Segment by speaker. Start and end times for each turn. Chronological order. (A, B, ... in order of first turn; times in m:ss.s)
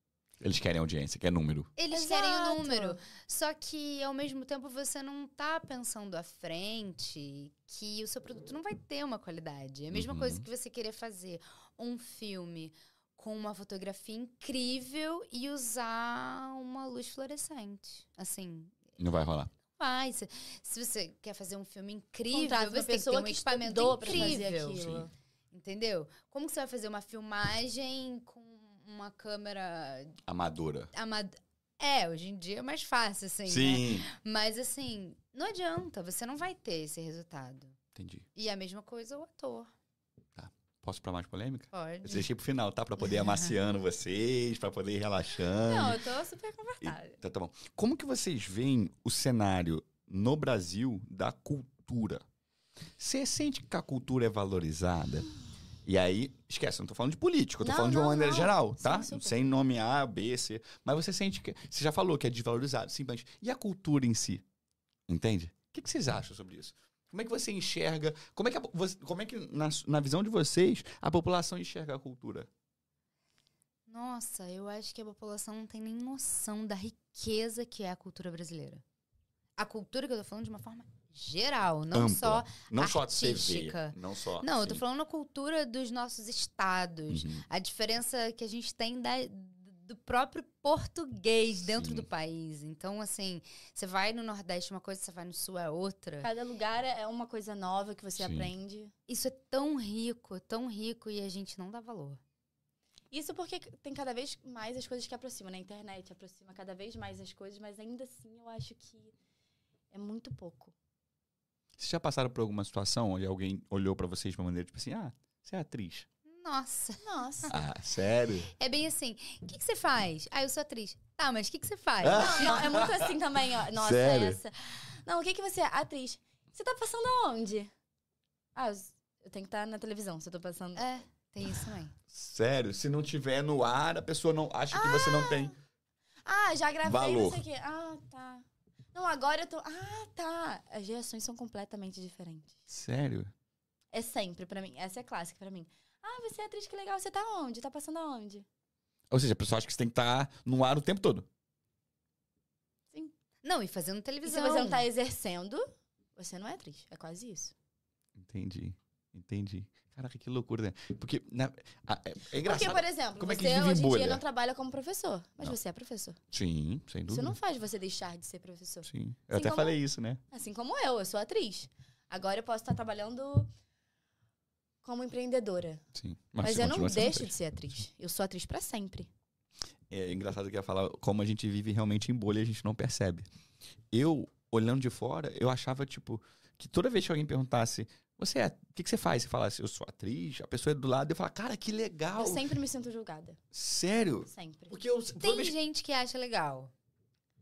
0:00.4-0:01.7 A
0:01.8-0:18.9 B
0:01.9-0:03.0 C
0:09.9-0:10.4 A
0:19.0-0:19.5 A
0:19.8-0:24.9 B
0:22.3-0:25.1 C
0:24.0-0:25.0 A
0:25.5-0:30.2 B
0:30.3-0:30.9 A
0:30.9-0:37.8 B
0:33.5-0:34.1 A
0:37.9-0:38.2 A
0:38.3-0:39.7 B
0:40.4-0:46.0 A
0:41.7-0:42.3 B
0:45.6-0:47.2 C
0:46.8-0:52.2 A
0:53.0-0:55.3 A
0:55.8-1:04.4 A
0:57.6-0:59.4 C
1:05.1-1:12.5 A
1:13.9-1:18.8 B
1:19.6-1:36.3 B
1:21.9-1:24.8 A
1:27.1-1:27.4 A
1:31.8-1:32.1 A
1:36.2-1:38.9 C
1:38.2-1:38.5 A
1:39.1-1:42.2 B
1:43.1-1:49.1 C
1:49.9-1:50.7 C
1:51.8-1:56.1 A
1:56.2-1:57.5 B
1:57.0-1:57.5 C
1:57.5-1:58.5 A
1:58.5-2:02.7 B
2:02.0-2:03.1 A
2:02.1-2:07.7 C
2:03.7-2:04.4 A
2:08.5-2:10.8 C
2:10.8-2:11.9 B
2:12.1-2:15.5 A
2:14.7-2:15.5 C
2:16.2-2:22.6 C
2:16.8-2:17.4 A
2:22.7-2:23.3 A
2:23.9-2:28.4 C
2:29.1-2:31.3 A
2:33.4-2:34.8 B
2:34.2-2:37.5 C
2:38.2-2:44.2 A
2:42.4-2:46.2 C
2:46.3-2:47.4 A
2:47.1-2:49.8 C
2:48.8-2:50.2 A
2:50.3-2:53.5 C
2:54.8-2:55.8 C
2:55.9-2:57.3 A
2:56.4-2:59.1 C
2:59.9-3:03.2 A
3:03.9-3:12.5 A
3:12.2-3:13.4 C
3:13.5-3:15.5 A
3:14.3-3:14.7 C
3:15.2-3:16.7 B